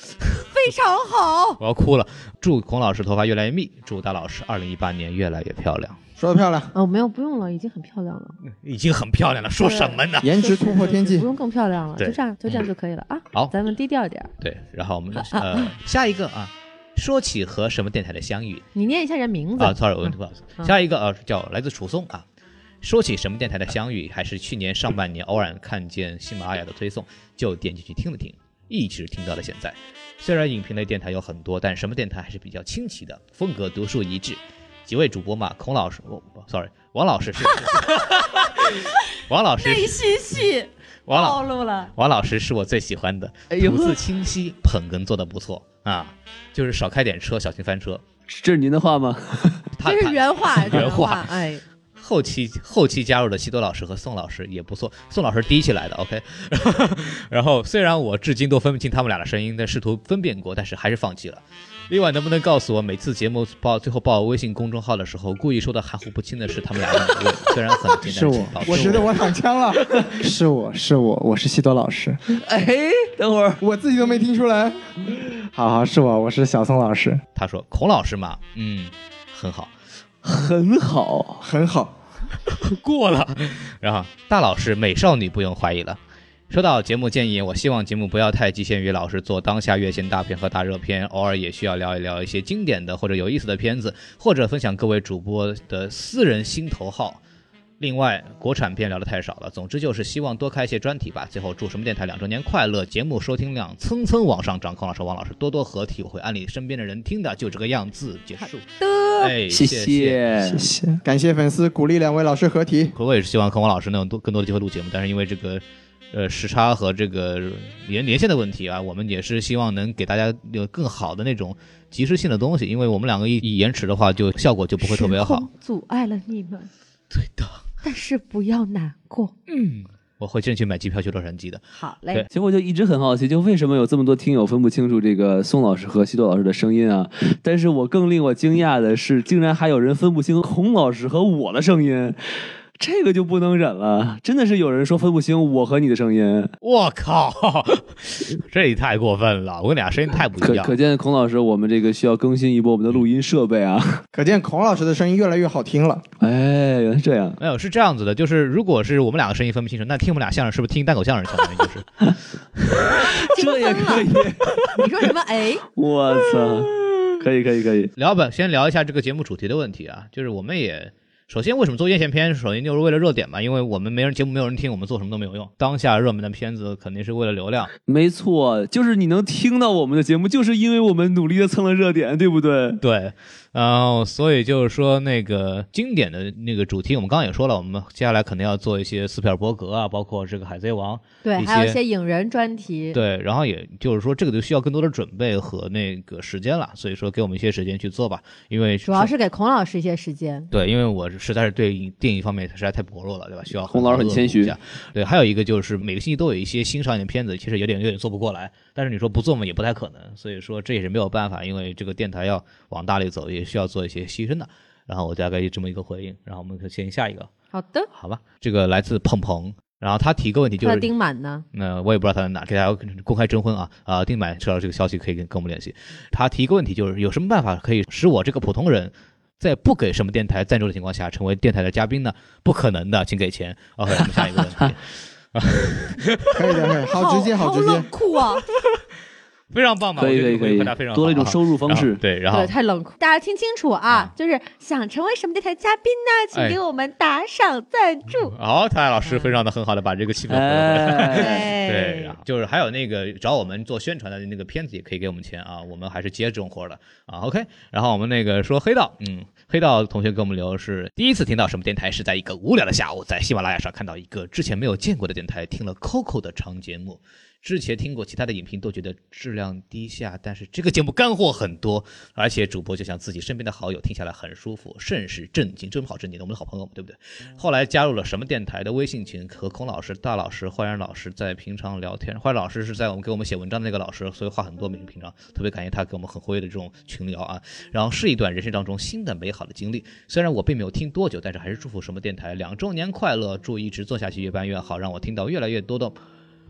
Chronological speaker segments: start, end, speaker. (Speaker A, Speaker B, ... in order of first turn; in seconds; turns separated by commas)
Speaker A: 0.5-1.6, Speaker B: 1.6-6.0, Speaker C: 6.2-6.7, Speaker A: 6.7-8.4, Speaker B: 8.5-10.3, Speaker A: 9.6-14.3, Speaker C: 10.2-11.2, Speaker B: 12.0-12.6, Speaker B: 14.4-18.6, Speaker A: 15.2-15.7, Speaker A: 18.7-20.7, Speaker B: 19.6-22.2, Speaker B: 22.8-38.7, Speaker B: 39.3-39.9, Speaker A: 39.6-41.9, Speaker B: 41.1-41.4, Speaker B: 41.9-48.0, Speaker D: 43.5-44.0, Speaker D: 48.3-49.6, Speaker B: 49.8-51.3, Speaker A: 49.8-51.6, Speaker B: 52.0-69.1, Speaker E: 68.1-69.0, Speaker C: 68.7-69.8, Speaker E: 70.2-72.2, Speaker D: 72.3-73.6, Speaker C: 73.6-74.8, Speaker E: 75.5-77.2, Speaker B: 77.3-79.7, Speaker D: 80.2-81.4, Speaker C: 81.4-81.9, Speaker B: 82.5-86.0, Speaker B: 86.5-97.2, Speaker B: 97.8-108.7, Speaker A: 108.4-109.3, Speaker B: 109.2-110.2, Speaker D: 109.5-110.6, Speaker E: 110.5-111.0, Speaker C: 111.0-112.9, Speaker B: 112.9-125.5, Speaker A: 124.8-126.7, Speaker B: 127.1-127.6, Speaker A: 127.8-129.3, Speaker B: 129.5-132.3, Speaker A: 131.7-132.2, Speaker D: 132.3-142.2, Speaker D: 142.8-146.5, Speaker B: 146.6-150.8, Speaker D: 150.4-154.0, Speaker C: 154.1-156.0, Speaker D: 156.2-157.4, Speaker B: 157.4-161.8, Speaker A: 163.3-164.1, Speaker D: 163.3-164.6, Speaker A: 164.7-165.6, Speaker D: 165.8-167.9, Speaker B: 168.0-177.7, Speaker D: 177.9-182.8, Speaker B: 182.8-191.8, Speaker A: 191.2-193.0, Speaker B: 192.9-199.1, Speaker A: 198.8-200.5, Speaker B: 200.5-217.3, Speaker D: 203.7-204.5, Speaker A: 217.5-217.9, Speaker B: 217.9-220.9, Speaker A: 220.6-221.4, Speaker B: 221.5-234.8, Speaker D: 234.0-234.7, Speaker B: 235.3-236.4, Speaker C: 236.3-237.9, Speaker A: 236.5-238.4, Speaker B: 239.5-242.5, Speaker D: 240.0-242.0, Speaker A: 242.3-248.3, Speaker B: 248.3-295.9, Speaker A: 249.0-249.3, Speaker D: 250.3-251.5, Speaker A: 251.1-252.2